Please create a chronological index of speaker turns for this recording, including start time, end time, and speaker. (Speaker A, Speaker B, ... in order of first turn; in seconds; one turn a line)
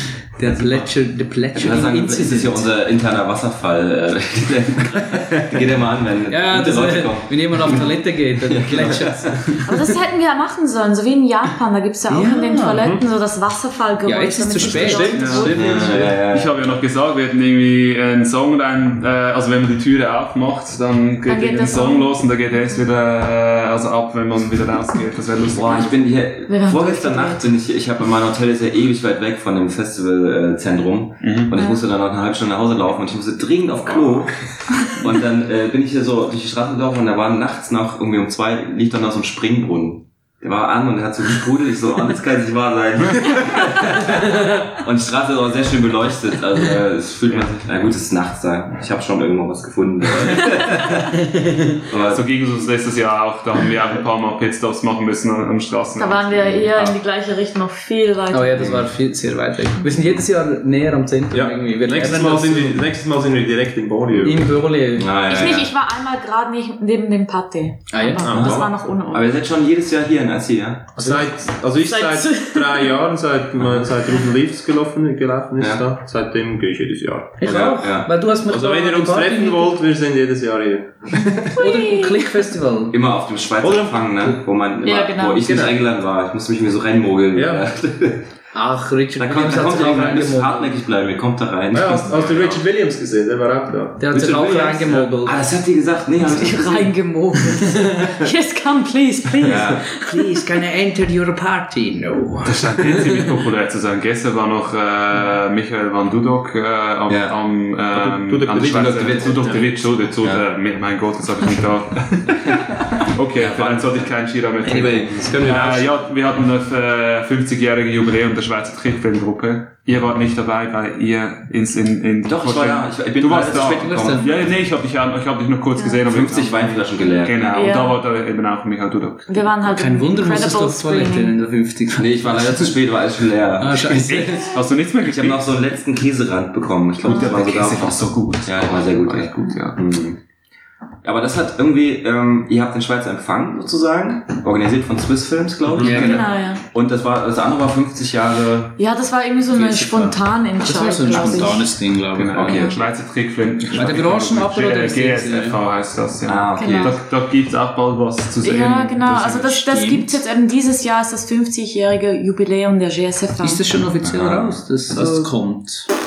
Speaker A: 0.3-2.7
Speaker B: 1.5-9.6
Speaker A: 6.3-9.8
Speaker C: 9.7-16.1
Speaker A: 12.1-12.9
Speaker D: 12.8-13.0
Speaker A: 14.1-16.2
Speaker D: 14.7-15.6
Speaker E: 14.9-15.5
Speaker B: 15.5-16.6
Speaker E: 16.2-25.9
Speaker C: 21.3-22.2
Speaker B: 25.5-51.2
Speaker C: 26.5-27.5
Speaker E: 31.2-31.6
Speaker C: 31.6-31.8
Speaker D: 33.9-34.2
Speaker A: 51.3-51.8
Speaker B: 51.9-52.2
Speaker E: 51.9-57.0
Speaker C: 56.0-58.8
Speaker A: 58.3-62.8
Speaker D: 61.3-64.6
Speaker A: 64.2-65.1
Speaker B: 65.0-65.7
Speaker C: 65.3-69.3
Speaker A: 67.9-68.5
Speaker D: 68.2-68.7
Speaker B: 68.3-70.9
Speaker A: 71.0-71.4
Speaker D: 71.0-77.8
Speaker C: 71.9-72.9
Speaker B: 73.6-73.8
Speaker B: 75.6-75.8
Speaker A: 77.4-79.7
Speaker B: 77.4-78.1
Speaker D: 78.4-81.6
Speaker A: 81.4-83.0
Speaker C: 81.6-82.3
Speaker B: 82.9-88.3
Speaker D: 83.6-84.4
Speaker C: 84.8-85.5
Speaker D: 85.4-85.7
Speaker D: 87.3-87.7
Speaker A: 88.5-90.8
Speaker B: 89.2-92.5
Speaker D: 91.7-94.2
Speaker E: 92.1-92.6
Speaker A: 94.0-95.5
Speaker B: 94.1-96.9
Speaker C: 96.2-100.4
Speaker B: 99.4-99.8
Speaker A: 99.9-103.2
Speaker E: 102.5-129.6
Speaker B: 107.1-107.4
Speaker D: 107.9-109.6
Speaker B: 108.5-110.5
Speaker B: 113.4-114.1
Speaker D: 114.6-115.9
Speaker B: 114.8-115.3
Speaker B: 122.2-124.3
Speaker A: 123.8-124.3
Speaker B: 126.0-127.5
Speaker C: 127.5-128.0
Speaker C: 129.3-131.3
Speaker A: 129.7-132.8
Speaker B: 131.9-134.4
Speaker A: 133.6-134.5
Speaker E: 134.1-135.6
Speaker B: 135.0-140.2
Speaker E: 137.0-139.8
Speaker C: 137.1-137.3
Speaker B: 141.0-148.8
Speaker D: 145.7-146.0
Speaker A: 145.8-146.2
Speaker C: 145.9-146.6
Speaker C: 148.8-151.7
Speaker A: 149.5-152.5
Speaker E: 152.1-159.6
Speaker B: 152.3-152.8
Speaker C: 152.4-152.8
Speaker A: 153.7-155.6
Speaker B: 156.2-157.0
Speaker C: 156.6-157.0
Speaker C: 158.4-163.6
Speaker A: 159.1-160.2
Speaker A: 163.4-165.9
Speaker B: 164.0-164.6
Speaker C: 165.0-165.3